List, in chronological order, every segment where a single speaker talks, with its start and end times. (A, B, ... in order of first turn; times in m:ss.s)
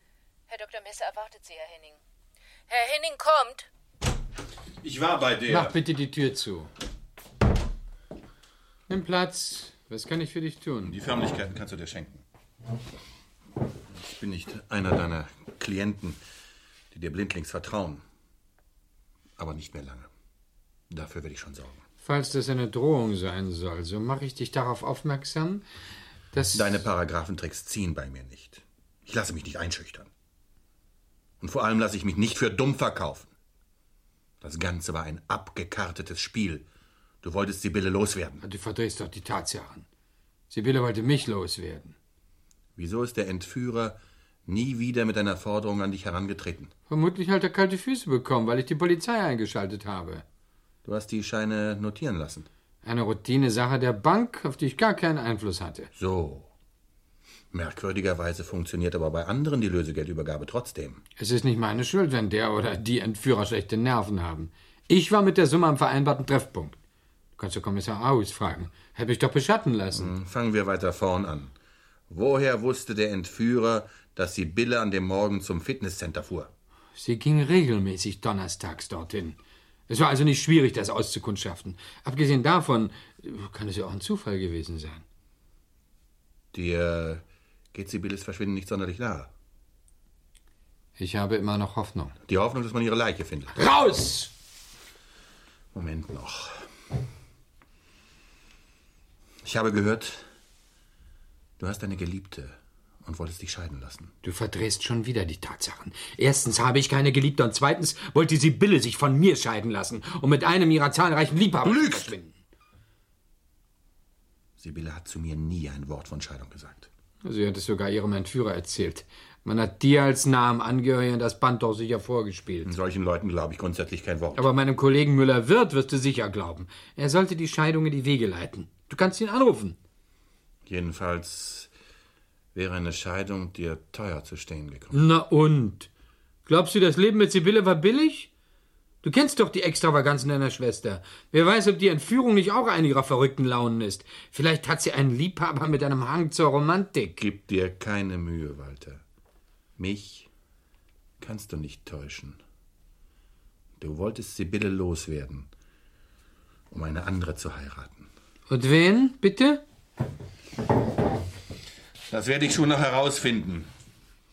0:00.5-0:02.0 A
0:02.7-0:03.7 A
0:04.8-0:05.7 B
0:05.5-0:06.7 C
0:08.9-0:11.0 C
0:10.8-0:12.2 B
0:13.9-0:16.2 B
0:16.9-0:18.0 B
0:19.4-0:20.1 B
0:20.9-0:21.8 B
0:22.0-0:25.6 C
0:26.3-0:26.9 C
0:26.5-0:30.1 B
0:31.4-0:33.3 B
0:34.4-0:36.6 B
0:37.2-0:38.4 B
0:38.4-0:39.9 C
0:40.5-0:42.0 C
0:42.8-0:46.7 B
0:46.9-0:50.2 C
0:50.8-0:52.5 B
0:52.8-0:55.9 C
0:56.0-0:56.5 B
0:57.5-1:01.0 B
1:01.2-1:06.8 C
1:07.4-1:10.1 C
1:09.9-1:11.5 B
1:12.1-1:16.5 B
1:17.0-1:25.0 C
1:26.5-1:29.3 B
1:31.0-1:32.2 C
1:32.3-1:33.6 B
1:33.5-1:34.3 C
1:35.7-1:36.6 B
1:39.4-1:40.3 B
1:41.6-1:44.1 B
1:44.2-1:52.4 C
1:51.6-1:52.1 B
1:54.6-1:56.9 B
1:57.2-2:02.7 C
2:02.6-2:04.5 B
2:04.3-2:09.8 C
2:10.7-2:11.7 B
2:12.5-2:15.0 B
2:14.9-2:15.9 C
2:16.5-2:18.3 C
2:19.0-2:27.2 C
2:27.2-2:29.0 B
2:29.8-2:30.3 B
2:31.2-2:32.4 B
2:33.8-2:35.5 B
2:36.7-2:38.1 B
2:38.5-2:39.6 C
2:42.1-2:43.7 B